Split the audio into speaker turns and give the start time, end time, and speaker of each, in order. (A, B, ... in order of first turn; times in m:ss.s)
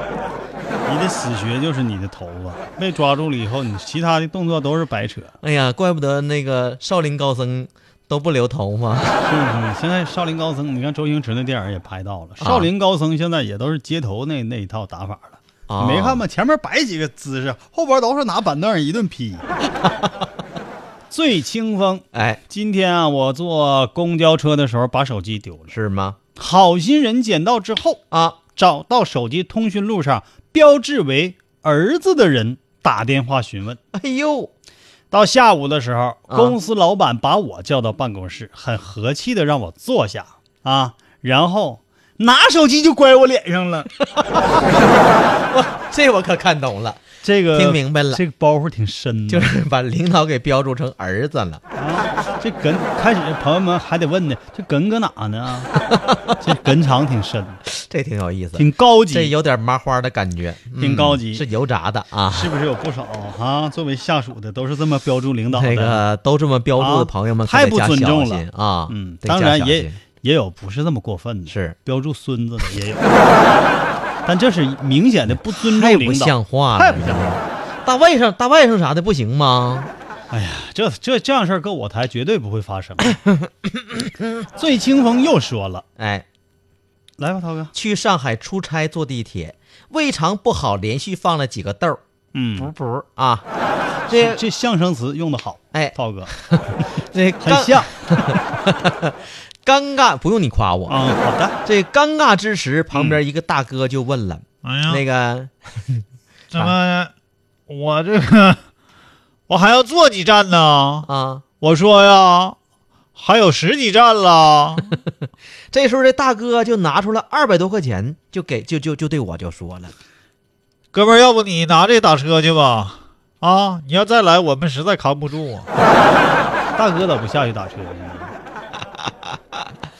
0:00.8-0:05.3 A
0:05.4-0:09.2 B
0:09.2-0:19.4 A
0:12.4-0:12.7 B
0:15.7-0:16.2 B
0:19.8-0:20.1 B
0:21.1-0:25.8 A
0:22.1-0:22.4 B
0:25.7-0:26.2 B
0:26.4-0:28.0 A
0:28.1-0:28.4 B
0:28.5-0:33.8 A
0:33.9-0:34.5 B
0:35.1-0:43.9 A
0:36.3-0:36.6 B
0:44.0-0:44.8 B
0:45.5-0:48.2 B
0:47.2-0:49.5 A
0:49.3-0:51.6 B
0:51.8-0:55.7 A
0:55.8-0:56.4 B
0:56.4-0:57.6 A
0:57.7-1:02.5 B
0:58.6-0:59.3 A
1:00.8-1:01.4 A
1:02.3-1:06.0 A
1:05.5-1:10.0 B
1:06.8-1:13.0 A
1:11.5-1:11.8 B
1:14.2-1:17.4 A
1:15.4-1:19.9 B
1:20.3-1:23.2 A
1:23.0-1:24.5 B
1:24.5-1:25.8 A
1:26.0-1:26.2 B
1:27.2-1:27.7 A
1:27.7-1:32.0 B
1:32.3-1:32.7 A
1:32.6-1:33.4 B
1:34.1-1:34.4 B
1:34.1-1:36.8 A
1:35.7-1:41.0 B
1:37.4-1:37.9 A
1:40.9-1:41.6 A
1:41.6-1:46.8 B
1:42.9-1:43.2 A
1:44.6-1:45.0 C
1:46.5-1:47.1 C
1:47.7-1:48.6 C
1:49.5-1:51.1 C
1:51.0-1:51.4 B
1:51.6-1:52.6 C
1:53.1-1:54.9 C
1:55.7-1:59.9 B
2:00.9-2:05.7 C
2:06.8-2:08.3 A
2:08.9-2:09.7 B